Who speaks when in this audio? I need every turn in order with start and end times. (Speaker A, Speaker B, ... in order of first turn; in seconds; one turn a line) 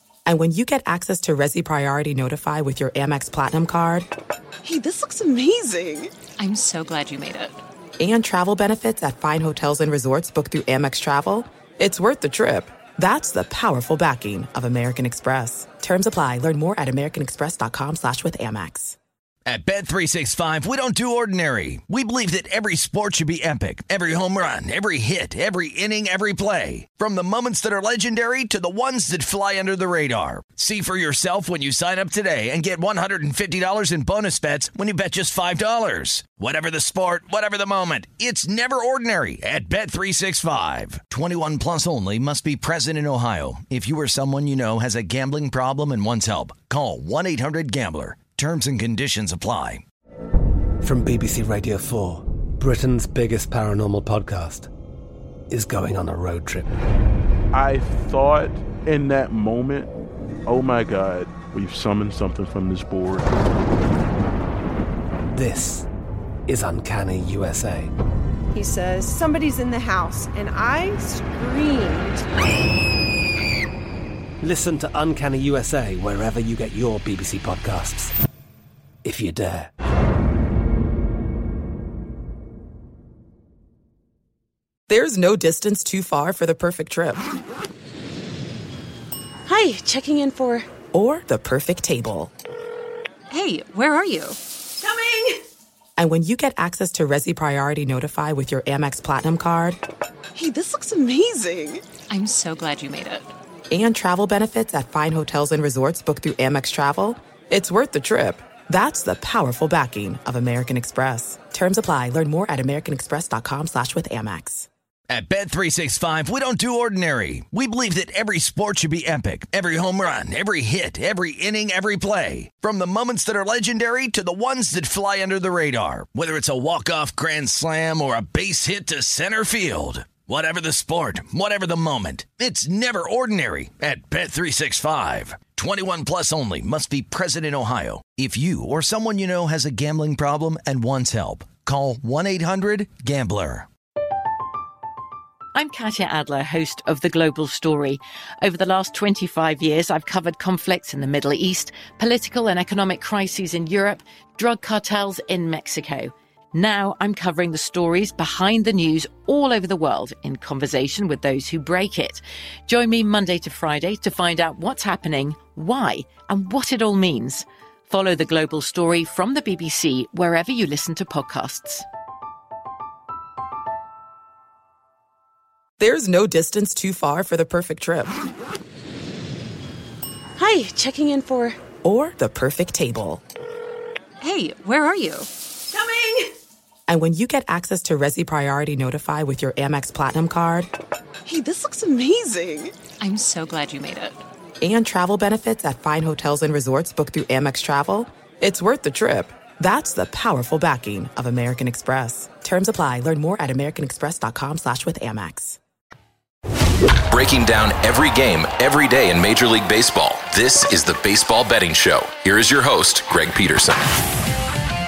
Speaker A: 0.2-4.1
Speaker B: 4.6-6.1
Speaker C: 6.4-7.6
Speaker A: 8.0-18.9
Speaker D: 19.4-49.8
Speaker E: 50.8-54.7
Speaker E: 55.5-56.7
Speaker F: 57.5-59.9
Speaker F: 60.5-63.3
Speaker E: 65.3-65.8
Speaker E: 66.5-67.9
Speaker G: 68.5-72.2
Speaker E: 74.4-78.1
Speaker E: 79.0-79.7
Speaker A: 84.9-87.2
Speaker B: 89.5-90.7
Speaker A: 90.9-92.3
Speaker C: 93.3-94.4
Speaker B: 94.8-95.4
Speaker A: 96.0-99.8
Speaker B: 100.3-101.8
Speaker C: 102.1-103.3
Speaker A: 103.7-114.7
Speaker D: 115.1-143.7
Speaker H: 145.5-171.8
Speaker A: 175.8-178.1
Speaker B: 180.4-181.6
Speaker A: 181.8-183.2
Speaker C: 184.2-185.3
Speaker B: 185.7-186.3
Speaker A: 186.9-190.7
Speaker B: 191.2-192.7
Speaker C: 193.0-194.2
Speaker A: 194.6-205.6
Speaker I: 207.1-213.8